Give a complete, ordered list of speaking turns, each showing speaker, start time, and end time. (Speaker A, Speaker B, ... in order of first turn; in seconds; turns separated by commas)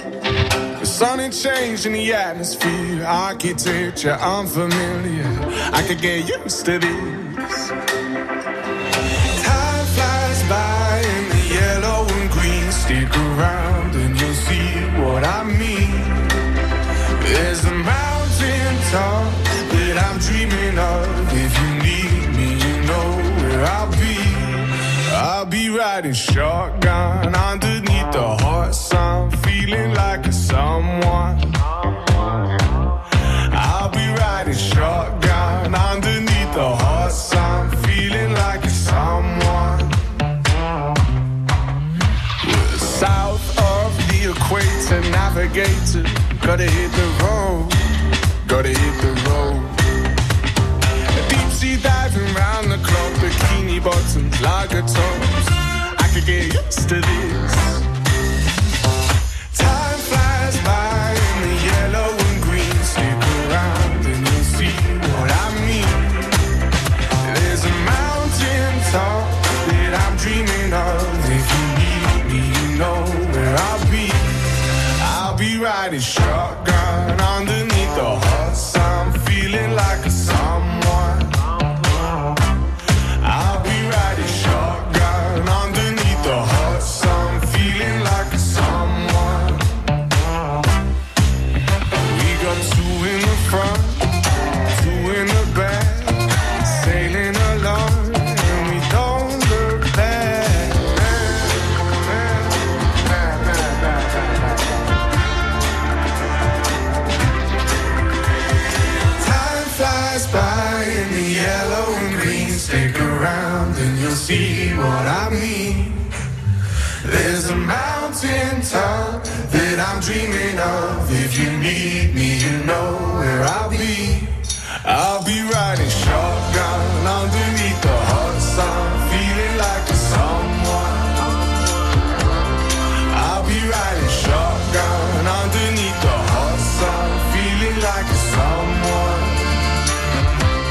Speaker A: 0.8-7.7, Speaker A: 9.3-16.3, Speaker A: 17.2-31.5, Speaker A: 33.5-40.0, Speaker A: 42.4-47.8, Speaker A: 48.4-49.8, Speaker A: 51.1-57.8, Speaker A: 59.5-66.4, Speaker A: 67.2-74.3, Speaker A: 75.0-81.3, Speaker A: 83.2-89.6, Speaker A: 92.0-94.0, Speaker A: 94.7-102.5, Speaker A: 103.0-104.2, Speaker A: 109.2-116.1, Speaker A: 117.0-131.3, Speaker A: 133.1-139.4